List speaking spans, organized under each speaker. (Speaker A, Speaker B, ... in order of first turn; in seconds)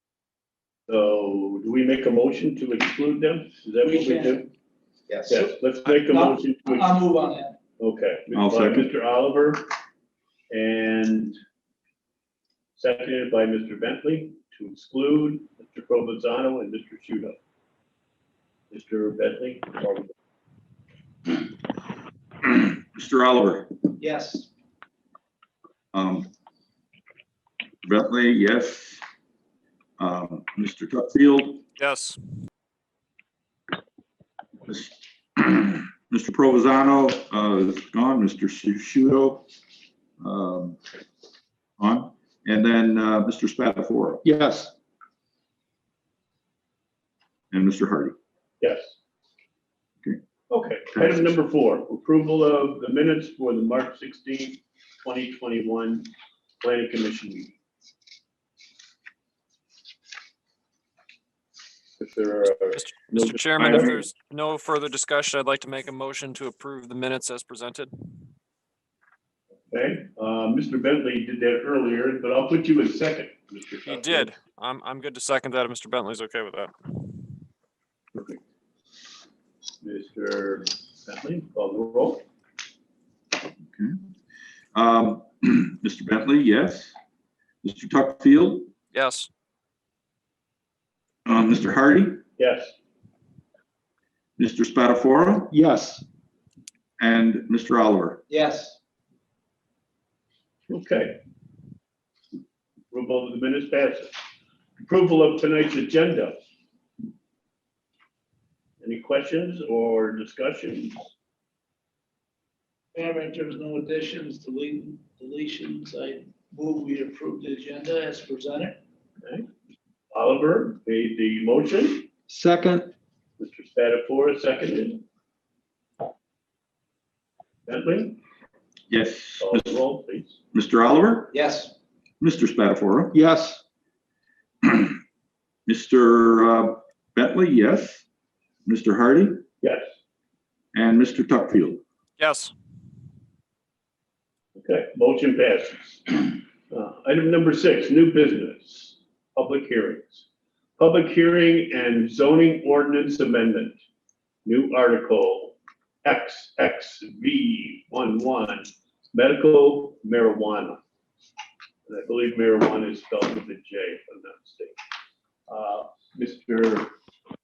Speaker A: 0.9-4.5, 5.3-6.9, 7.8-9.7, 10.5-11.4, 12.8-17.4, 18.7-20.1, 48.6-49.0, 50.5-56.1, 56.6-57.5, 62.0-64.0, 69.7-74.3, 78.1-78.4, 79.8-82.2, 92.4-92.7, 100.7-101.2, 102.9-104.1, 104.8-106.4, 108.8-111.0, 120.1-122.1, 123.4-125.0, 127.7-128.2, 129.4-130.4, 139.6-139.9, 144.6-150.2, 150.8-153.8, 154.4-160.8, 161.9-164.8, 165.5-166.9
Speaker B: 3.8-4.5, 5.1-7.5, 24.0-24.5, 98.3-98.8, 112.9-118.8, 131.3-131.7
Speaker C: 8.3-8.9, 22.4-23.8, 25.9-26.3, 27.8-29.0, 30.0-31.6, 34.7-39.5, 40.2-40.8, 41.8-44.2, 47.5-48.1, 50.9-51.3, 63.6-63.9, 84.7-86.9, 87.6-88.7, 91.2-92.2, 94.4-95.5, 97.0-98.2, 128.9-129.8, 130.5-131.3, 132.2-133.1, 134.6-135.0, 135.7-138.0, 138.6-139.4, 140.7-141.8
Speaker D: 31.8-32.2, 62.7-67.9, 73.8-77.1, 88.9-89.3, 142.2-142.5
Speaker E: 44.2-44.7, 95.5-96.0, 122.3-122.9, 133.1-133.6